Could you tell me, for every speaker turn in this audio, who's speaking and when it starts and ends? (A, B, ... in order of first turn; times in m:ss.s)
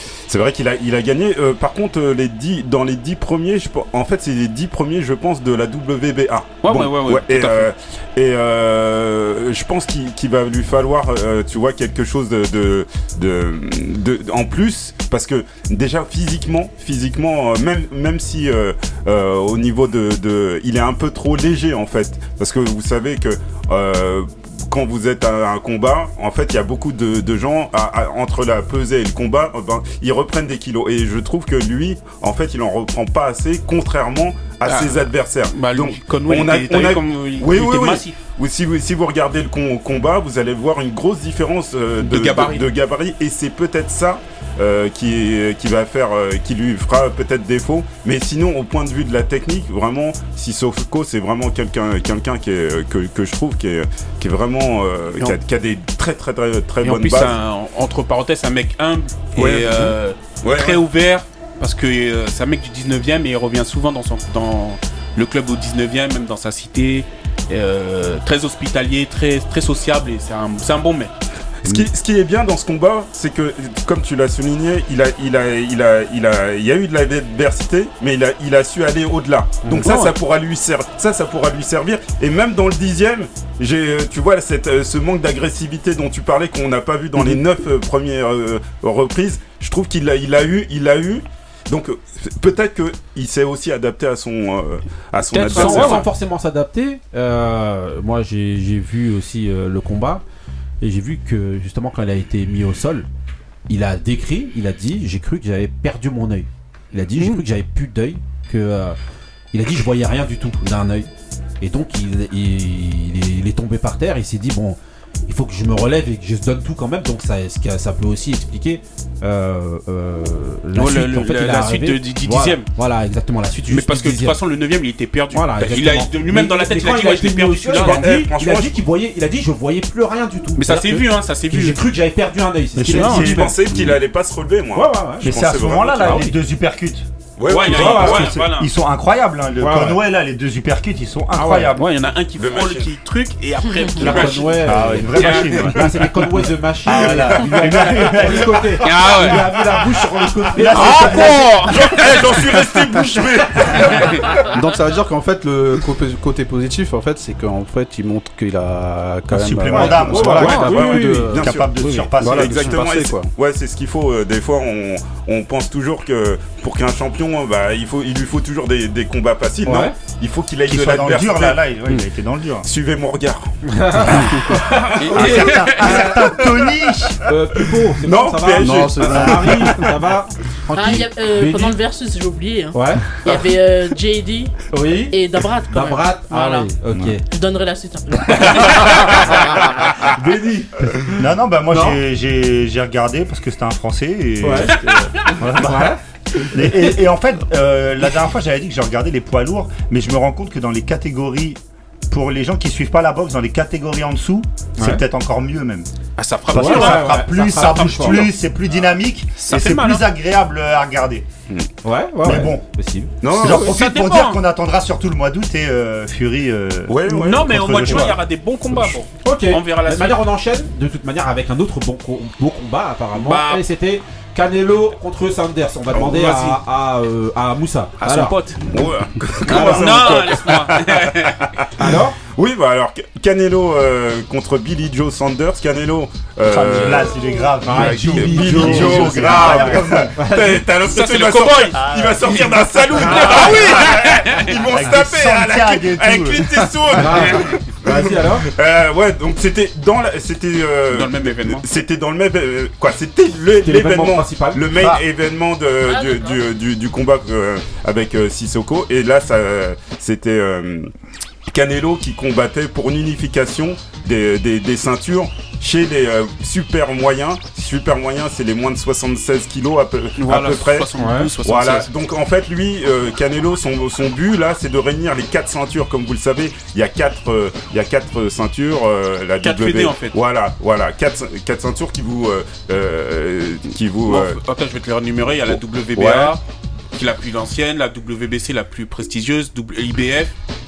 0:00.3-0:57.4 A
0:06.6-0:07.7 B
0:34.6-0:38.2 B
0:42.0-0:42.7 B
0:56.8-1:11.1 B
0:59.4-1:00.8 A
1:11.6-1:36.1 A
1:19.6-1:19.9 C
1:19.8-1:20.1 B
1:35.3-1:36.1 B
1:35.4-1:40.2 C
1:40.8-1:43.1 C
1:43.7-1:49.0 C
1:49.5-1:51.1 C
1:51.6-2:04.4 C
2:00.7-2:02.7 B
2:03.7-2:08.3 B
2:05.3-2:13.6 C
2:07.8-2:08.7 A
2:10.6-2:11.8 B
2:12.8-2:13.9 D
2:12.9-2:13.4 B
2:12.9-2:16.2 A
2:14.7-2:15.4 C
2:15.2-2:17.0 D
2:16.0-2:16.3 C
2:17.4-2:18.4 A
2:17.4-2:18.7 B
2:17.7-2:18.3 C
2:17.7-2:21.8 D
2:19.6-2:20.0 C
2:21.3-2:21.8 C
2:21.8-2:25.7 B
2:22.4-2:22.9 A
2:24.0-2:31.6 C
2:24.6-2:26.0 D
2:26.8-2:29.0 D
2:28.8-2:29.4 B
2:30.5-2:32.0 D
2:30.7-2:32.1 B
2:30.8-2:34.5 A
2:34.5-2:43.3 E
2:39.3-2:42.7 D
2:39.7-2:41.3 C
2:40.3-2:51.6 A
2:49.6-2:50.0 C
2:50.7-2:52.7 D
2:52.6-2:53.5 A
2:53.6-2:56.0 C
2:54.1-2:55.4 A
2:55.0-2:56.0 B
2:55.1-2:57.2 D
2:57.2-3:01.8 C
2:58.0-2:59.5 A
2:58.6-2:59.6 E
3:00.7-3:04.6 F
3:02.7-3:03.2 C
3:04.7-3:05.2 C
3:05.1-3:06.7 F
3:05.7-3:07.2 C
3:07.3-3:09.6 F
3:08.3-3:09.0 C
3:10.0-3:12.0 C
3:11.2-3:25.9 D
3:14.4-3:14.8 C
3:15.4-3:16.0 C
3:26.2-3:28.3 B
3:26.5-3:31.3 D
3:26.5-3:28.3 C
3:29.4-3:30.0 B
3:31.8-3:33.7 C
3:32.2-3:32.6 D
3:33.2-3:33.7 A
3:33.2-3:38.2 D
3:33.5-3:34.4 B
3:36.9-3:38.1 A
3:37.1-3:40.2 B
3:39.2-3:48.4 C
3:43.1-3:43.6 B
3:46.0-3:46.6 B
3:48.0-3:48.6 B
3:48.7-4:20.9 A
3:49.4-3:51.5 B
3:51.8-3:52.2 C
3:56.4-4:00.1 D
3:57.6-4:00.7 C
4:00.9-4:01.8 B
4:01.7-4:03.9 D
4:03.0-4:04.4 B
4:03.2-4:03.6 C
4:04.7-4:06.7 D
4:06.9-4:08.5 C
4:10.9-4:11.6 B
4:13.6-4:14.6 C
4:14.7-4:15.0 D
4:15.8-4:16.4 F
4:21.5-4:30.9 A
4:30.2-4:31.9 B
4:31.0-4:31.3 C
4:31.4-4:44.4 A
4:39.4-4:40.2 B
4:44.0-4:46.4 B
4:45.4-4:46.4 A
4:46.9-4:50.3 B